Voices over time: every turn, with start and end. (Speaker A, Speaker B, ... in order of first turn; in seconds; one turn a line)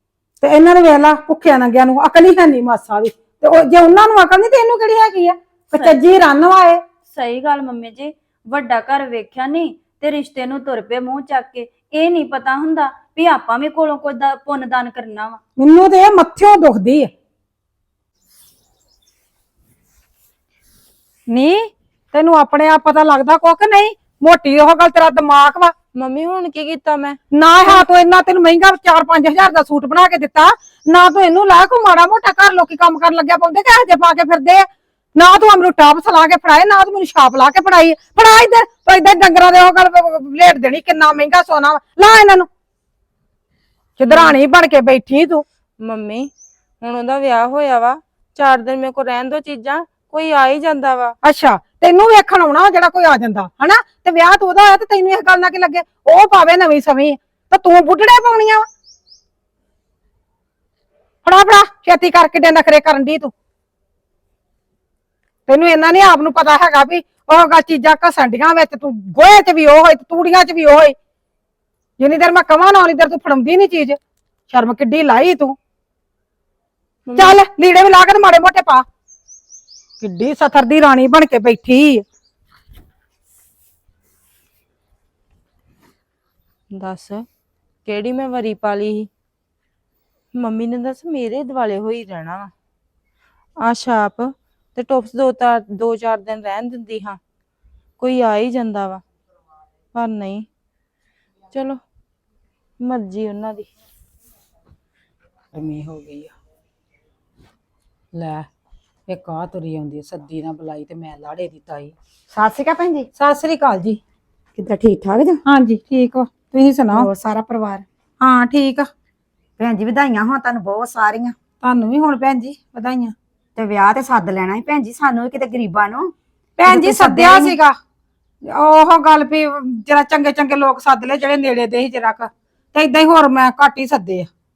Speaker A: 0.4-6.8
Speaker B: 5.7-6.0
Speaker B: 7.0-15.4
Speaker A: 15.6-17.1
Speaker A: 21.3-25.7
Speaker C: 25.9-27.8
Speaker A: 27.3-42.5
Speaker A: 44.0-45.4
Speaker C: 44.1-44.4
Speaker C: 45.8-46.3
Speaker C: 46.8-51.1
Speaker A: 51.2-58.7
Speaker A: 61.2-63.3
Speaker A: 65.5-70.9
Speaker A: 72.0-74.0
Speaker A: 74.5-75.5
Speaker C: 77.1-77.4
Speaker A: 77.2-78.8
Speaker A: 80.0-82.0
Speaker C: 86.7-87.2
Speaker C: 87.8-89.1
Speaker C: 90.3-92.5
Speaker C: 93.6-97.2
Speaker C: 98.0-99.0
Speaker C: 99.9-100.5
Speaker C: 101.5-101.8
Speaker C: 102.8-103.7
Speaker A: 105.5-106.3
Speaker A: 108.1-108.5
Speaker A: 109.1-111.9
Speaker D: 112.3-113.1
Speaker A: 113.2-114.0
Speaker D: 114.5-115.4
Speaker A: 115.4-117.1
Speaker D: 116.9-117.8
Speaker A: 118.2-118.9
Speaker D: 119.6-121.3
Speaker A: 121.6-123.1
Speaker D: 123.5-126.1
Speaker A: 126.6-127.8
Speaker D: 126.7-127.5
Speaker A: 128.4-134.3